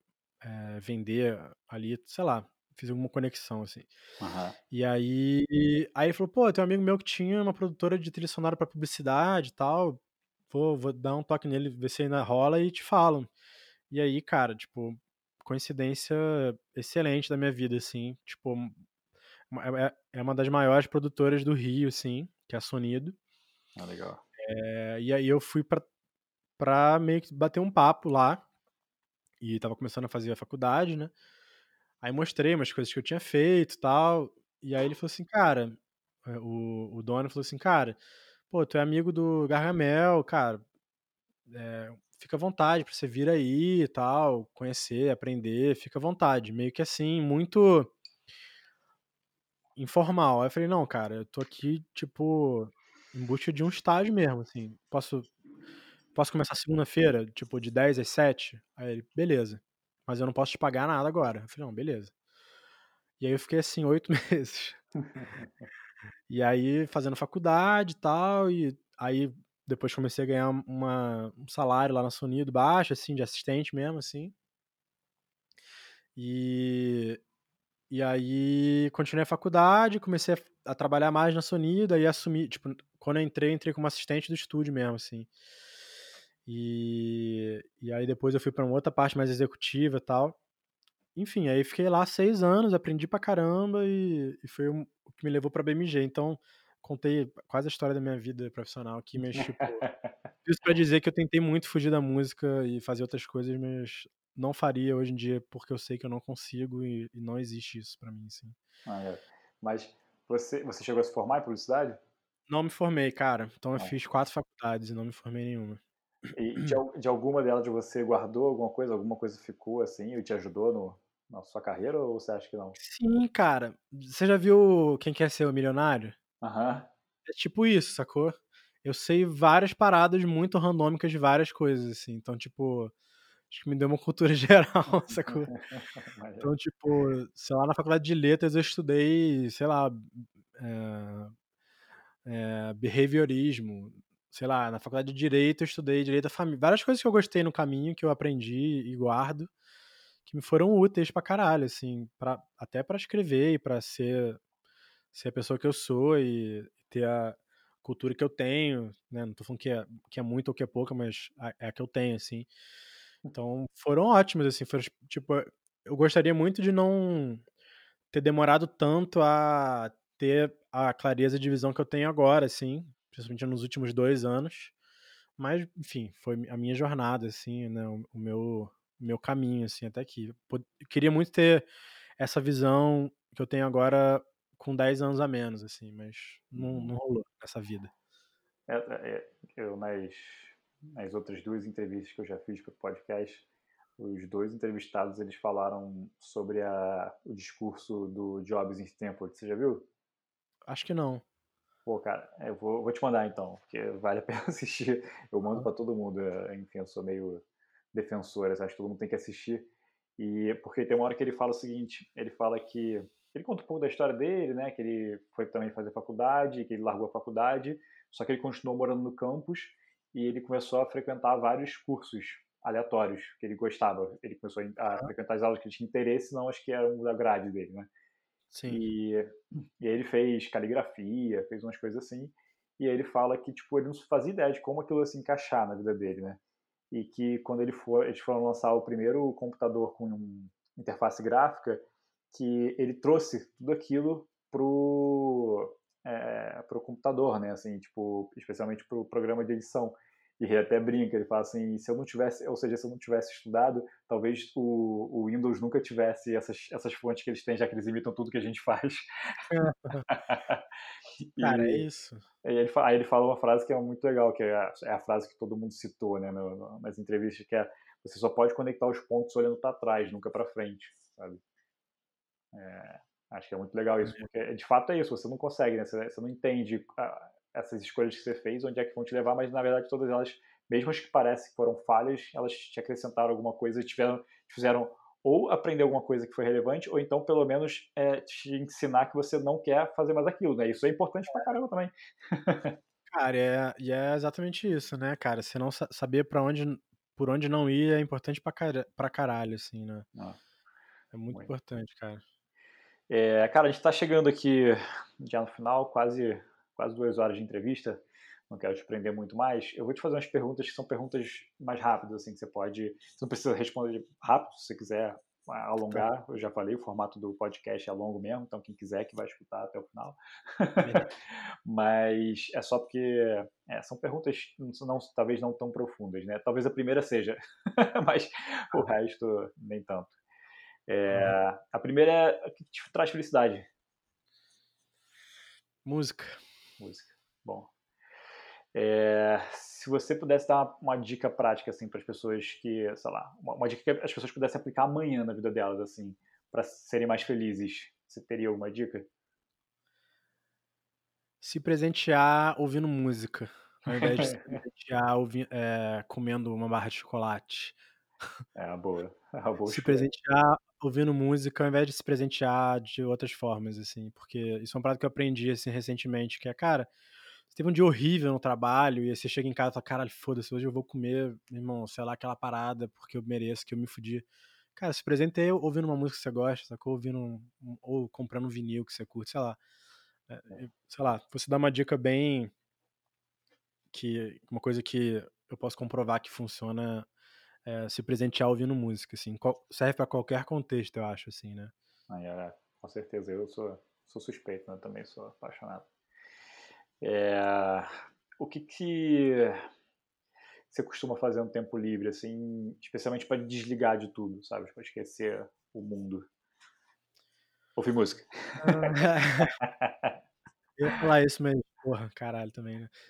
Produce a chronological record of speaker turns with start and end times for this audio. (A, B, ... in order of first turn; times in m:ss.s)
0:00.4-0:03.9 A
0:04.2-0:04.6 B
0:04.7-0:13.3 A
0:13.9-0:18.8 A
0:19.5-0:23.2 A
0:23.8-0:24.2 B
0:24.4-0:25.8 A
0:26.6-0:28.4 A
0:29.4-0:31.1 A
0:32.0-0:38.0 A
0:38.5-0:40.6 A
0:41.5-0:47.9 A
0:49.8-0:55.3 A
0:56.1-1:02.1 A
1:03.2-1:04.8 A
1:05.2-1:05.4 B
1:06.3-1:14.3 A
1:16.2-1:17.2 A
1:17.9-1:25.3 A
1:26.4-1:30.4 A
1:31.1-1:39.8 A
1:39.3-1:40.1 B
1:40.4-1:48.6 A
1:48.8-1:52.0 B
1:52.5-1:55.8 A
1:56.3-2:02.8 B
2:02.8-2:06.2 A
2:06.4-2:06.9 B
2:07.2-2:12.9 A
2:13.5-2:15.5 A
2:15.1-2:16.5 B
2:16.4-2:21.3 A
2:22.2-2:29.5 A
2:30.2-2:34.4 A
2:35.1-2:42.5 A
2:43.3-2:47.4 A
2:48.1-2:54.7 A
2:55.4-3:01.7 A
3:02.2-3:07.9 A
3:06.6-3:06.9 B
3:08.7-3:13.4 B
3:14.0-3:19.8 B
3:20.7-3:21.2 A
3:21.8-3:47.9 B
3:48.5-3:48.8 A
3:48.7-3:56.4 B
3:56.9-4:19.1 B
4:19.5-4:20.0 A
4:20.1-4:20.6 B
4:21.3-4:21.8 B
4:21.4-4:22.2 A
4:22.4-4:31.4 B
4:32.5-4:52.8 B
4:53.1-5:00.0 A
5:01.1-5:02.2 A
5:03.1-5:21.1 B
5:20.8-5:21.1 A
5:21.6-5:30.1 B
5:30.9-5:33.6 B
5:35.8-5:36.4 A
5:36.8-5:37.7 B
5:38.7-5:49.1 B
5:51.4-5:57.8 A
5:53.9-5:54.6 B
5:58.6-6:00.1 B
5:59.7-6:06.9 A
6:07.5-6:19.6 A
6:20.3-6:22.5 A
6:23.9-6:27.1 A
6:27.6-6:31.7 A
6:32.1-6:35.8 B
6:37.0-6:39.6 B
6:40.7-6:46.2 B
6:47.8-6:50.1 B
6:48.6-6:49.5 A
6:50.8-6:52.9 A